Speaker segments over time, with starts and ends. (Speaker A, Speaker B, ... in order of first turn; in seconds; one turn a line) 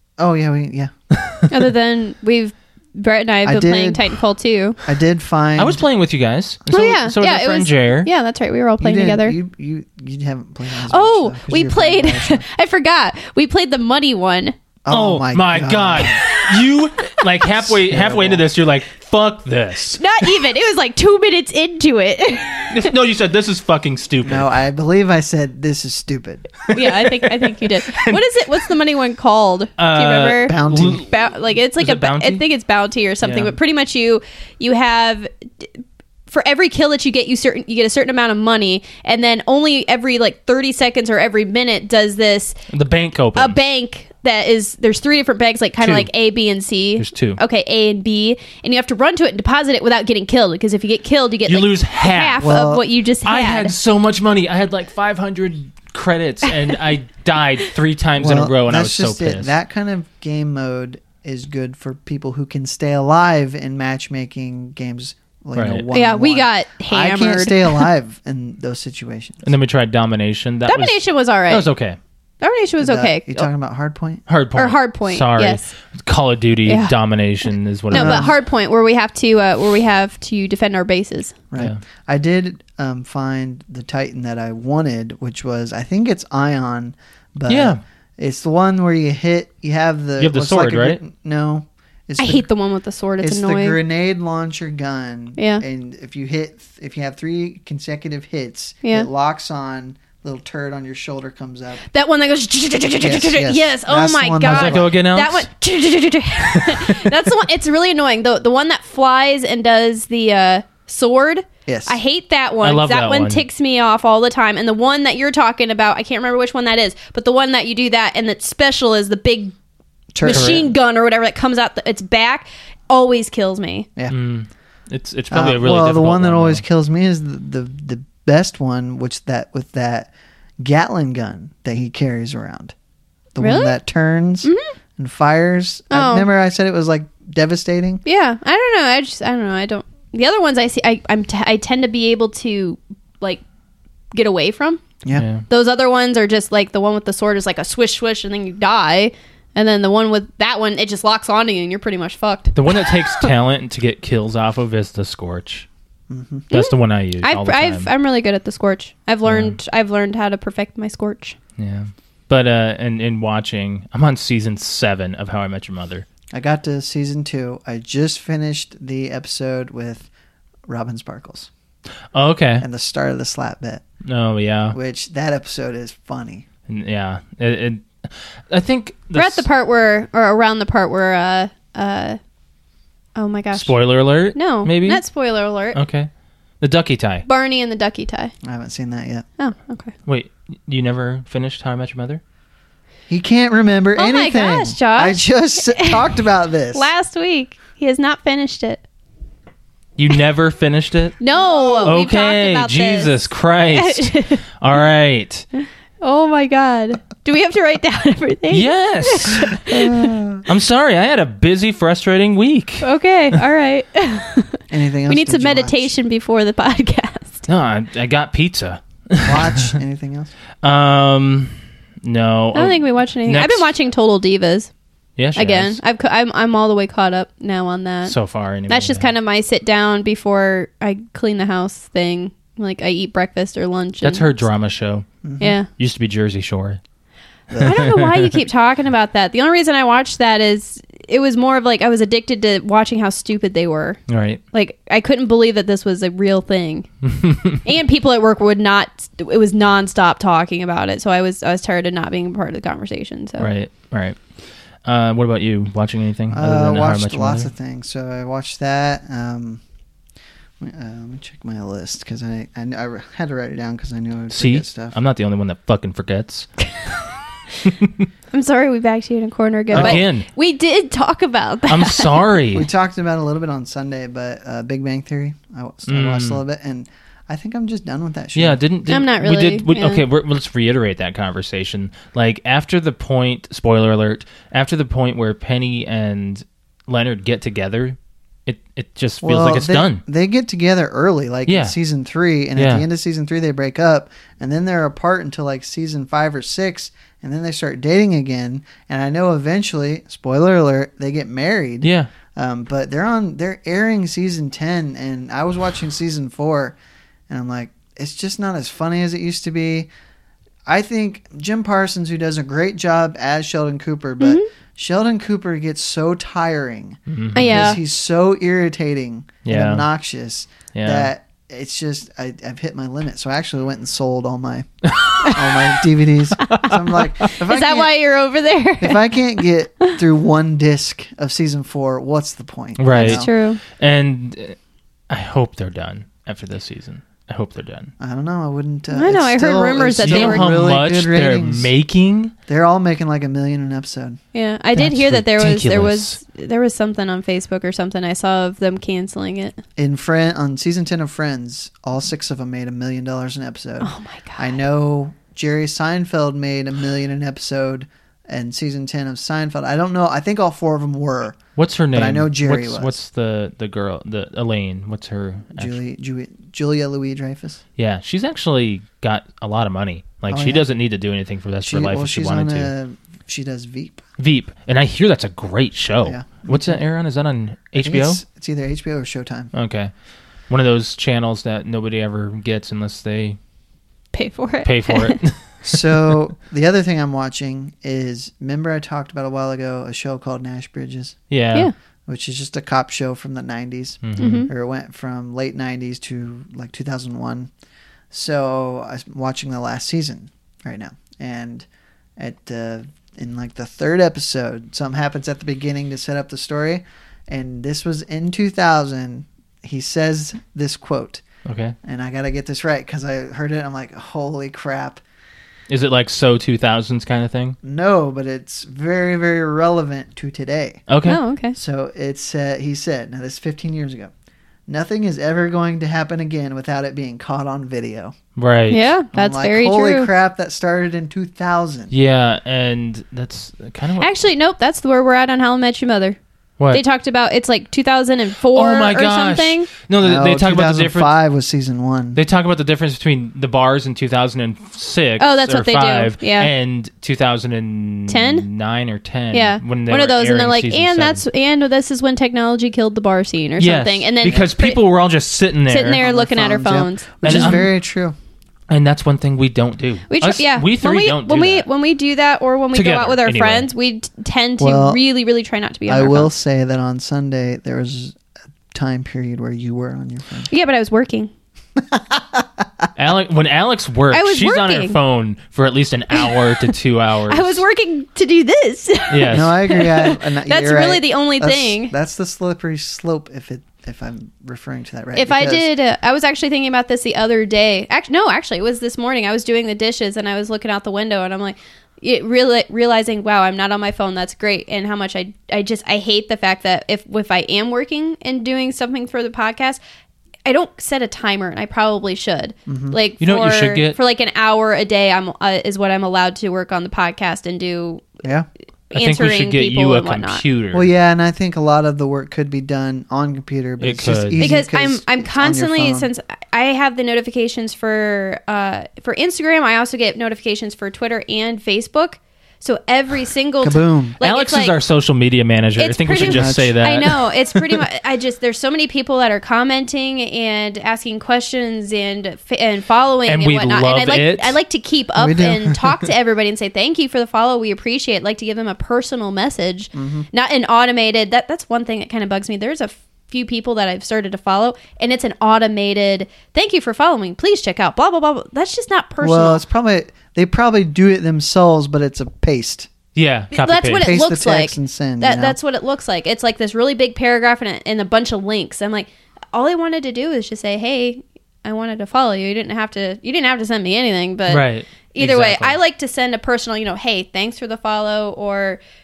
Speaker A: 0.2-0.9
Speaker B: 1.1-1.5
Speaker C: 1.5-4.8
Speaker A: 3.4-4.2
Speaker A: 4.8-5.8
Speaker B: 5.6-8.1
Speaker C: 6.7-9.3
Speaker A: 8.8-12.4
Speaker C: 10.9-14.6
Speaker A: 14.8-16.3
Speaker B: 14.9-20.5
Speaker A: 17.5-18.4
Speaker C: 20.0-22.9
Speaker B: 22.7-24.5
Speaker A: 24.2-26.6
Speaker B: 26.7-28.7
Speaker C: 26.7-42.6
Speaker B: 29.8-31.2
Speaker A: 30.4-31.1
Speaker B: 31.7-32.4
Speaker B: 33.2-33.5
Speaker B: 42.7-43.6
Speaker C: 43.4-53.7
Speaker B: 45.8-46.1
Speaker B: 47.0-47.4
Speaker B: 51.5-52.5
Speaker A: 52.4-52.8
Speaker B: 53.2-59.5
Speaker A: 58.2-69.4
Speaker B: 65.5-65.8
Speaker C: 65.9-67.9
Speaker B: 69.4-72.0
Speaker C: 70.7-71.7
Speaker C: 72.4-73.5
Speaker A: 72.8-74.2
Speaker B: 74.3-78.3
Speaker C: 74.5-75.7
Speaker C: 76.7-76.9
Speaker C: 77.9-81.3
Speaker A: 77.9-78.3
Speaker A: 81.5-92.5
Speaker B: 87.5-87.8
Speaker B: 90.2-91.0
Speaker C: 92.2-93.8
Speaker A: 93.2-101.8
Speaker C: 95.4-95.6
Speaker C: 98.8-99.1
Speaker C: 101.9-119.5
Speaker A: 103.0-105.0
Speaker B: 104.4-105.5
Speaker B: 106.5-107.2
Speaker A: 111.7-112.0
Speaker B: 112.6-113.4
Speaker A: 120.1-120.7
Speaker C: 120.2-123.9
Speaker B: 120.3-120.7
Speaker B: 124.1-126.6
Speaker A: 125.3-132.7
Speaker A: 133.3-138.0
Speaker C: 133.4-133.8
Speaker C: 134.4-134.7
Speaker C: 135.9-136.3
Speaker C: 138.0-143.4
Speaker C: 144.1-144.8
Speaker B: 145.1-145.4
Speaker C: 145.5-153.3
Speaker B: 152.5-155.7
Speaker A: 156.1-156.5
Speaker B: 156.5-157.9
Speaker C: 156.5-161.4
Speaker B: 159.2-159.6
Speaker B: 161.6-166.1
Speaker A: 166.3-170.1
Speaker A: 170.7-171.5
Speaker B: 172.1-172.7
Speaker A: 172.6-173.8
Speaker B: 174.0-174.8
Speaker A: 174.7-176.4
Speaker B: 176.7-179.4
Speaker C: 179.1-182.2
Speaker C: 183.1-183.8
Speaker B: 183.5-185.0
Speaker C: 184.3-185.8
Speaker B: 185.7-186.1
Speaker B: 186.6-187.2
Speaker C: 187.2-188.3
Speaker A: 188.4-189.2
Speaker C: 189.4-189.9
Speaker B: 190.1-192.2
Speaker A: 193.1-196.9
Speaker C: 193.9-196.1
Speaker C: 196.7-198.8
Speaker B: 200.0-201.2
Speaker C: 201.2-204.4
Speaker A: 201.4-202.0
Speaker B: 201.8-205.4
Speaker C: 205.6-210.1
Speaker B: 208.5-209.7
Speaker A: 209.7-210.4
Speaker B: 210.4-212.8
Speaker C: 212.8-217.4
Speaker A: 214.7-215.9
Speaker B: 217.5-219.8
Speaker A: 219.2-220.3
Speaker B: 220.6-223.7
Speaker C: 222.5-224.7
Speaker B: 225.2-225.8
Speaker C: 225.3-228.1
Speaker B: 228.0-229.1
Speaker C: 228.7-234.3
Speaker B: 234.0-235.1
Speaker A: 235.2-235.5
Speaker C: 235.4-235.7
Speaker B: 235.7-236.8
Speaker A: 237.5-237.9
Speaker B: 237.6-238.3
Speaker C: 237.6-244.0
Speaker B: 244.1-244.4
Speaker C: 244.5-253.5
Speaker B: 247.1-247.6
Speaker B: 253.4-254.2
Speaker B: 254.8-257.5
Speaker A: 256.3-259.6
Speaker A: 260.6-264.9
Speaker B: 264.3-266.5
Speaker B: 267.6-268.1
Speaker C: 268.3-272.3
Speaker A: 269.7-270.0
Speaker B: 269.7-270.3
Speaker B: 271.7-272.7
Speaker A: 272.5-278.6
Speaker B: 275.9-276.4
Speaker B: 278.3-290.0
Speaker C: 278.9-280.0
Speaker A: 289.2-306.8
Speaker B: 291.5-291.7
Speaker B: 292.6-292.8
Speaker B: 301.8-302.1
Speaker A: 307.3-309.9
Speaker A: 310.6-324.7
Speaker C: 314.2-314.5
Speaker B: 317.1-317.8
Speaker C: 317.3-317.8
Speaker B: 319.4-319.9
Speaker B: 320.7-321.1
Speaker C: 325.2-325.4
Speaker A: 325.2-327.9
Speaker C: 326.4-329.2
Speaker B: 326.5-327.0
Speaker A: 328.8-333.3
Speaker B: 332.8-334.6
Speaker C: 332.9-333.6
Speaker B: 335.1-337.9
Speaker A: 338.0-341.7
Speaker C: 338.9-340.5
Speaker B: 340.0-342.3
Speaker A: 342.5-344.2
Speaker C: 344.3-349.6
Speaker B: 344.8-346.2
Speaker A: 349.8-361.4
Speaker C: 353.8-354.6
Speaker B: 361.6-365.8
Speaker A: 361.9-363.0
Speaker A: 365.5-367.6
Speaker B: 367.8-372.7
Speaker A: 370.3-370.6
Speaker A: 371.6-374.0
Speaker B: 374.2-378.2
Speaker A: 376.0-376.8
Speaker A: 377.8-379.5
Speaker B: 379.5-379.9
Speaker B: 380.5-383.4
Speaker C: 384.1-385.2
Speaker B: 384.6-386.1
Speaker A: 385.6-391.2
Speaker B: 391.3-391.7
Speaker A: 392.1-397.5
Speaker B: 394.0-394.5
Speaker C: 394.2-394.5
Speaker A: 398.1-411.2
Speaker B: 411.4-411.7
Speaker A: 411.8-415.0
Speaker B: 415.7-417.6
Speaker A: 417.6-420.8
Speaker B: 420.9-421.2
Speaker C: 421.0-421.6
Speaker A: 421.5-424.1
Speaker A: 424.7-428.1
Speaker B: 428.4-428.8
Speaker C: 428.7-430.1
Speaker A: 429.1-431.9
Speaker B: 431.9-434.1
Speaker C: 434.0-436.2
Speaker C: 436.7-439.7
Speaker B: 438.5-441.1
Speaker A: 440.0-442.2
Speaker B: 442.1-451.2
Speaker C: 445.2-446.5
Speaker C: 448.1-448.4
Speaker C: 449.3-454.8
Speaker B: 453.6-456.0
Speaker C: 455.7-457.6
Speaker A: 456.0-458.1
Speaker B: 457.2-457.7
Speaker B: 458.7-461.7
Speaker C: 460.1-466.3
Speaker B: 462.7-463.7
Speaker A: 464.6-465.0
Speaker A: 465.9-468.1
Speaker A: 468.7-470.5
Speaker C: 470.5-471.3
Speaker A: 471.8-472.9
Speaker B: 472.9-477.6
Speaker C: 474.1-475.0
Speaker C: 476.1-476.7
Speaker C: 477.3-481.9
Speaker B: 479.1-479.5
Speaker A: 479.3-485.7
Speaker C: 485.1-499.8
Speaker C: 500.4-508.1
Speaker A: 502.7-503.0
Speaker B: 503.2-504.0
Speaker C: 508.9-510.4
Speaker B: 508.9-510.9
Speaker A: 510.7-516.1
Speaker B: 513.8-514.5
Speaker C: 514.4-524.8
Speaker A: 523.6-524.2
Speaker B: 524.2-527.8
Speaker C: 525.8-549.6
Speaker A: 526.2-526.8
Speaker B: 533.2-534.6
Speaker A: 535.1-535.7
Speaker A: 539.9-540.3
Speaker A: 549.2-552.9
Speaker B: 553.1-554.1
Speaker C: 553.5-568.8
Speaker A: 554.0-555.5
Speaker B: 564.5-565.8